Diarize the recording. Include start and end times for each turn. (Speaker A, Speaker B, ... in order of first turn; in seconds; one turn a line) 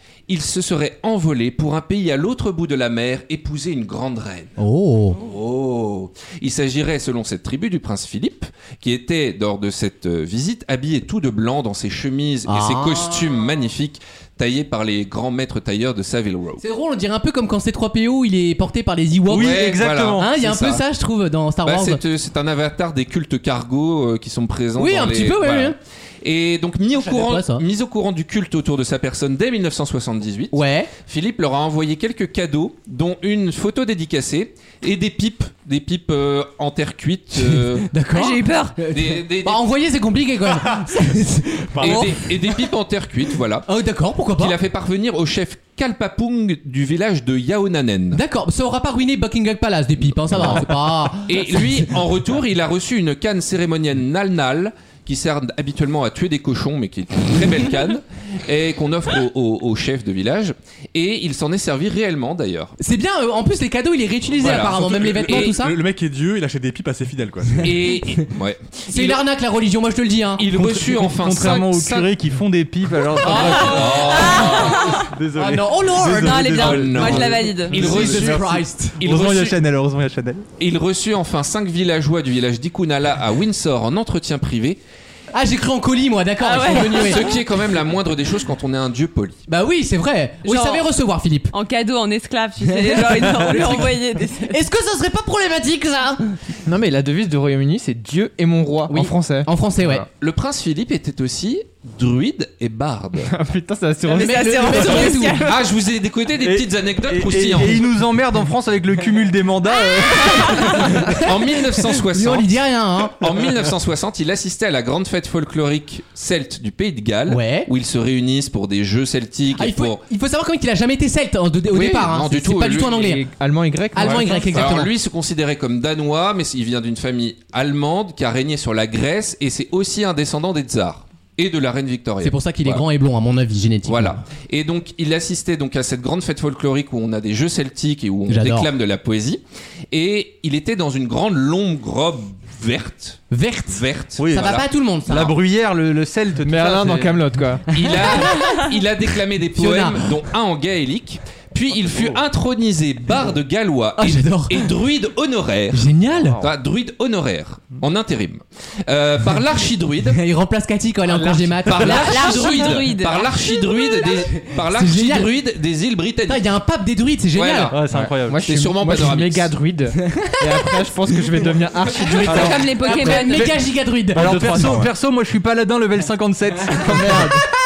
Speaker A: 0.3-4.5
Speaker B: 4.6-5.2
Speaker A: 5.1-16.6
Speaker B: 12.5-13.4
Speaker B: 16.6-22.0
Speaker C: 19.2-20.3
Speaker A: 19.3-20.8
Speaker A: 21.6-37.9
Speaker B: 24.8-25.8
Speaker B: 26.9-27.6
Speaker B: 30.5-30.9
Speaker B: 37.4-42.7
Speaker D: 38.1-38.8
Speaker A: 38.9-39.6
Speaker E: 40.5-41.0
Speaker E: 41.7-42.1
Speaker A: 41.8-43.7
Speaker B: 43.6-44.6
Speaker A: 44.3-48.2
Speaker B: 48.1-51.9
Speaker A: 50.3-62.7
Speaker B: 62.8-65.7
Speaker A: 64.3-65.5
Speaker E: 64.6-67.7
Speaker A: 67.6-69.2
Speaker B: 68.9-70.5
Speaker A: 70.4-72.1
Speaker C: 70.5-80.4
Speaker B: 73.2-79.0
Speaker A: 73.2-74.9
Speaker D: 74.0-75.1
Speaker D: 76.1-77.9
Speaker A: 76.3-78.4
Speaker A: 79.0-79.6
Speaker A: 80.6-84.8
Speaker B: 85.3-87.3
Speaker D: 86.4-87.4
Speaker A: 86.8-89.4
Speaker B: 89.5-91.5
Speaker D: 90.4-90.9
Speaker D: 91.5-94.6
Speaker B: 92.7-96.3
Speaker F: 96.7-100.0
Speaker B: 98.9-100.1
Speaker A: 100.1-103.3
Speaker F: 103.3-105.2
Speaker D: 104.1-105.6
Speaker B: 104.1-105.6
Speaker A: 105.3-107.8
Speaker C: 106.4-111.1
Speaker D: 110.3-110.6
Speaker B: 110.7-113.4
Speaker A: 111.2-112.6
Speaker A: 113.2-120.0
Speaker B: 117.3-117.7
Speaker B: 119.5-123.2
Speaker A: 121.7-123.2
Speaker F: 122.8-124.9
Speaker B: 123.9-124.9
Speaker A: 124.0-132.8
Speaker B: 132.2-134.2
Speaker A: 133.8-144.6
Speaker B: 138.3-138.7
Speaker B: 143.3-145.4
Speaker C: 144.2-147.4
Speaker F: 146.4-147.6
Speaker A: 147.7-160.2
Speaker B: 147.7-148.8
Speaker B: 149.5-150.1
Speaker C: 151.8-152.2
Speaker B: 154.0-154.7
Speaker B: 155.7-156.4
Speaker B: 160.0-162.9
Speaker A: 161.1-166.4
Speaker D: 161.8-163.8
Speaker B: 164.3-165.3
Speaker B: 166.3-167.7
Speaker A: 167.3-169.5
Speaker C: 167.7-168.5
Speaker F: 168.2-172.9
Speaker B: 170.0-170.4
Speaker B: 171.9-174.8
Speaker C: 172.2-177.4
Speaker D: 172.3-173.6
Speaker B: 176.7-177.2
Speaker F: 176.8-177.4